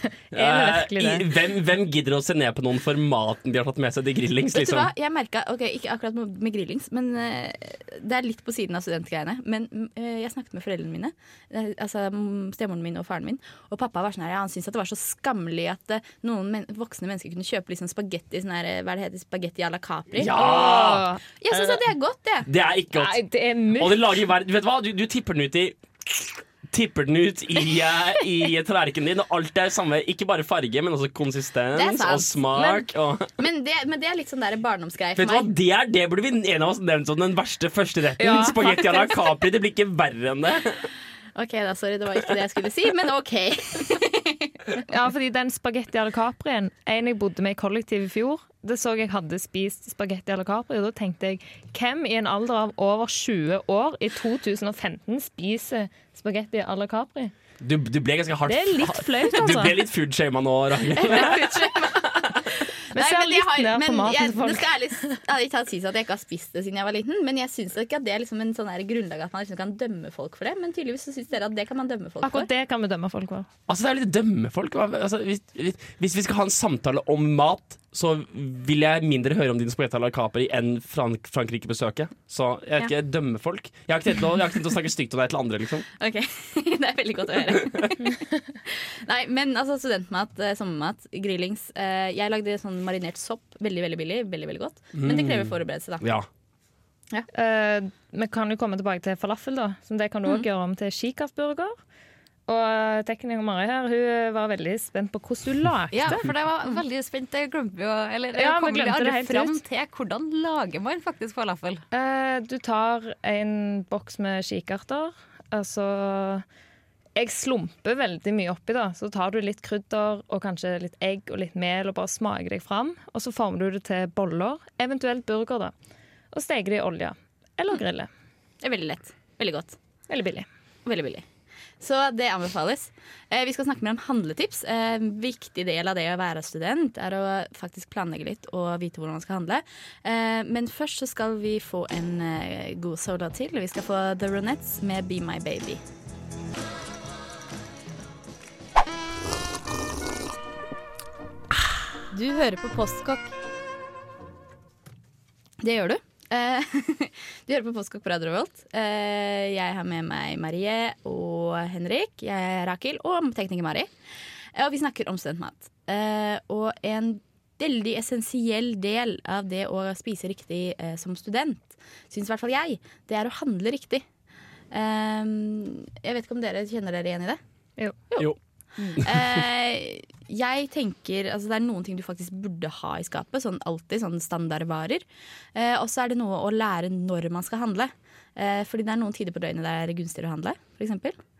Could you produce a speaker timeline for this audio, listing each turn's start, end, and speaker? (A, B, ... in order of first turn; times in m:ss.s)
0:00.3-0:04.9 A
0:00.3-0:01.3 B
0:04.5-0:20.4 C
0:20.2-0:21.1 A
0:20.3-0:21.2 B
0:21.4-0:22.5 C
0:22.5-0:23.2 A
0:22.9-0:24.0 B
0:23.7-0:33.3 A
0:31.7-0:32.5 C
0:32.6-0:32.8 B
0:33.4-0:35.5 C
0:35.2-0:40.9 A
0:38.2-0:39.2 B
0:41.4-0:44.5 C
0:44.8-0:57.3 B
0:57.6-1:01.6 A
0:58.5-0:59.8 B
1:01.0-1:12.5 C
1:02.9-1:05.2 B
1:12.2-1:13.5 B
1:13.7-1:25.9 A
1:26.0-1:36.1 C
1:35.0-1:36.3 A
1:37.3-1:41.8 B
1:42.5-1:46.2 B
1:45.9-1:51.8 D
1:48.3-1:49.6 B
1:51.9-1:56.4 B
1:57.2-2:05.7 B
2:06.3-2:08.1 B
2:08.6-2:09.8 C
2:10.1-2:10.5 B
2:10.8-2:11.3 C
2:11.8-2:25.8 C
2:32.1-2:33.3 C
2:35.6-2:43.9 C
2:44.5-2:54.0 C
2:54.7-2:57.4 C
2:58.1-3:05.0 C
2:59.0-2:59.4 A
3:05.6-3:11.2 C